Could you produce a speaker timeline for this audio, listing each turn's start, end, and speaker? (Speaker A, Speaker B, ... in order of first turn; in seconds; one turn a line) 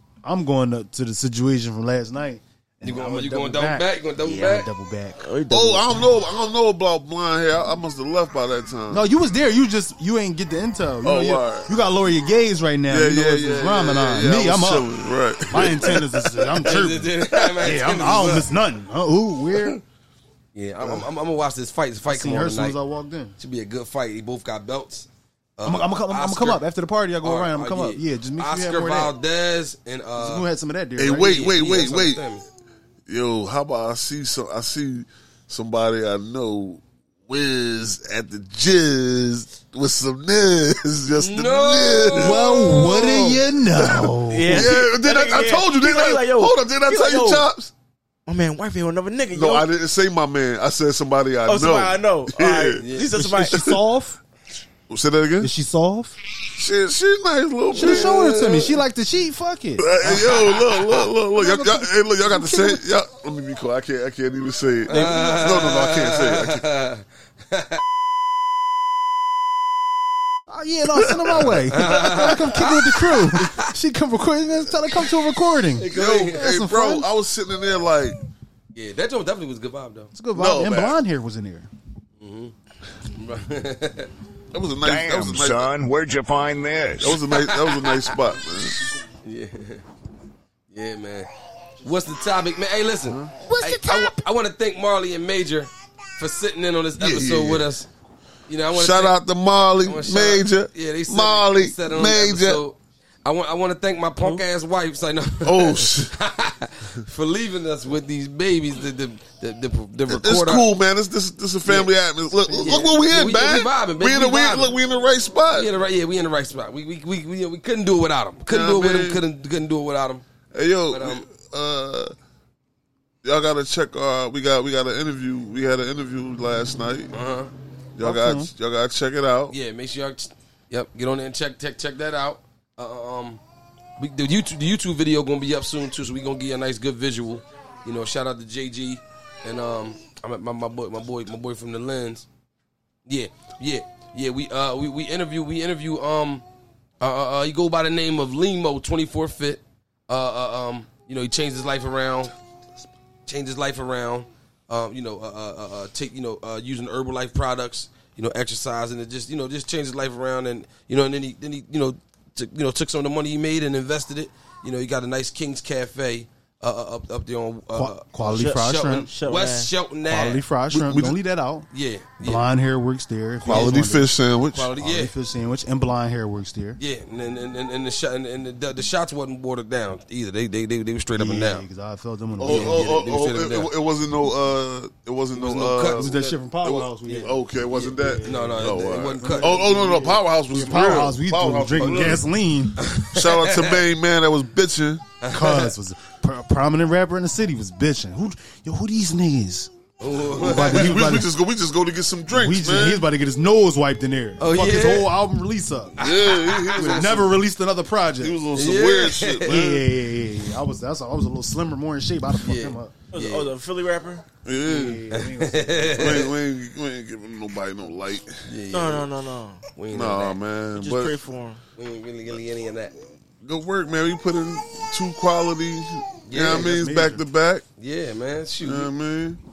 Speaker A: 0.2-5.3
Speaker B: 2.8-4.7
Speaker C: 5.2-6.0
Speaker D: 5.5-9.1
Speaker A: 8.9-14.9
Speaker D: 11.0-11.7
Speaker D: 12.9-16.7
Speaker A: 15.5-19.8
Speaker B: 16.6-18.5
Speaker B: 20.6-22.8
Speaker D: 20.8-21.1
Speaker A: 22.1-23.4
Speaker B: 23.4-26.6
Speaker A: 25.6-29.1
Speaker B: 27.2-30.5
Speaker A: 30.2-31.3
Speaker D: 31.0-32.2
Speaker B: 31.1-32.5
Speaker D: 33.1-47.7
Speaker B: 41.2-43.4
Speaker A: 42.1-44.8
Speaker C: 44.3-47.5
Speaker C: 48.3-49.7
Speaker D: 49.3-52.8
Speaker C: 51.5-53.7
Speaker B: 52.8-53.1
Speaker A: 53.2-54.2
Speaker D: 53.5-53.8
Speaker D: 54.9-55.5
Speaker A: 55.4-56.2
Speaker D: 56.5-58.8
Speaker A: 57.7-62.8
Speaker B: 57.8-58.3
Speaker D: 59.8-66.7
Speaker B: 64.9-67.8
Speaker A: 64.9-65.3
Speaker C: 65.0-65.4
Speaker A: 70.5-77.1
Speaker B: 71.3-73.7
Speaker B: 75.8-76.5
Speaker D: 75.8-78.2
Speaker B: 78.7-80.1
Speaker A: 80.1-81.7
Speaker D: 80.3-81.0
Speaker B: 82.2-82.5
Speaker B: 83.2-84.1
Speaker D: 84.5-85.7
Speaker E: 84.8-87.3
Speaker D: 87.0-88.8
Speaker B: 87.2-88.2
Speaker B: 89.2-89.8
Speaker B: 90.7-91.3
Speaker B: 91.8-97.9
Speaker D: 93.1-94.1
Speaker D: 97.0-97.7
Speaker B: 98.5-99.2
Speaker D: 98.7-102.6
Speaker B: 99.8-110.7
Speaker D: 105.4-106.1
Speaker D: 110.1-115.7
Speaker B: 111.7-111.9
Speaker A: 112.5-113.0
Speaker B: 112.6-114.8
Speaker B: 115.5-120.2
Speaker D: 118.5-119.2
Speaker D: 120.5-122.1
Speaker B: 120.9-121.3
Speaker D: 123.2-127.1
Speaker B: 127.1-127.5
Speaker D: 128.0-129.6
Speaker A: 128.0-128.5
Speaker B: 129.5-133.4
Speaker B: 134.0-142.3
Speaker B: 143.1-146.4
Speaker B: 147.0-152.3
Speaker B: 153.3-170.5
Speaker A: 167.8-169.1
Speaker C: 168.2-169.7
Speaker A: 170.1-171.7
Speaker D: 170.7-171.2
Speaker B: 171.7-172.4
Speaker A: 172.2-174.1
Speaker D: 173.4-174.7
Speaker B: 173.5-173.8
Speaker B: 174.5-175.1
Speaker A: 174.8-176.8
Speaker B: 176.8-181.7
Speaker A: 181.2-183.0
Speaker D: 182.4-192.3
Speaker B: 182.4-183.7
Speaker B: 185.3-186.2
Speaker A: 186.0-187.4
Speaker C: 187.7-189.8
Speaker B: 188.2-189.6
Speaker A: 188.8-192.8
Speaker B: 191.8-192.2
Speaker B: 192.8-193.8
Speaker D: 193.1-195.1
Speaker B: 195.2-195.7
Speaker A: 195.2-199.7
Speaker B: 200.0-201.1
Speaker A: 200.3-201.3
Speaker D: 200.5-203.1
Speaker A: 202.3-205.9
Speaker B: 204.4-205.2
Speaker B: 206.0-207.3
Speaker D: 206.0-207.4
Speaker A: 206.8-208.4
Speaker D: 208.2-209.9
Speaker B: 208.5-209.6
Speaker A: 209.4-212.9
Speaker B: 212.4-213.5
Speaker C: 213.1-214.2
Speaker D: 214.4-215.1
Speaker A: 214.7-216.3
Speaker B: 215.1-216.3
Speaker D: 215.9-218.3
Speaker B: 218.5-219.1
Speaker C: 218.7-219.8
Speaker B: 219.8-220.4
Speaker D: 219.9-221.1
Speaker C: 220.7-221.6
Speaker B: 221.8-223.0
Speaker D: 223.4-227.6
Speaker B: 226.3-226.8
Speaker A: 226.5-227.2
Speaker B: 227.8-228.9
Speaker D: 228.6-229.4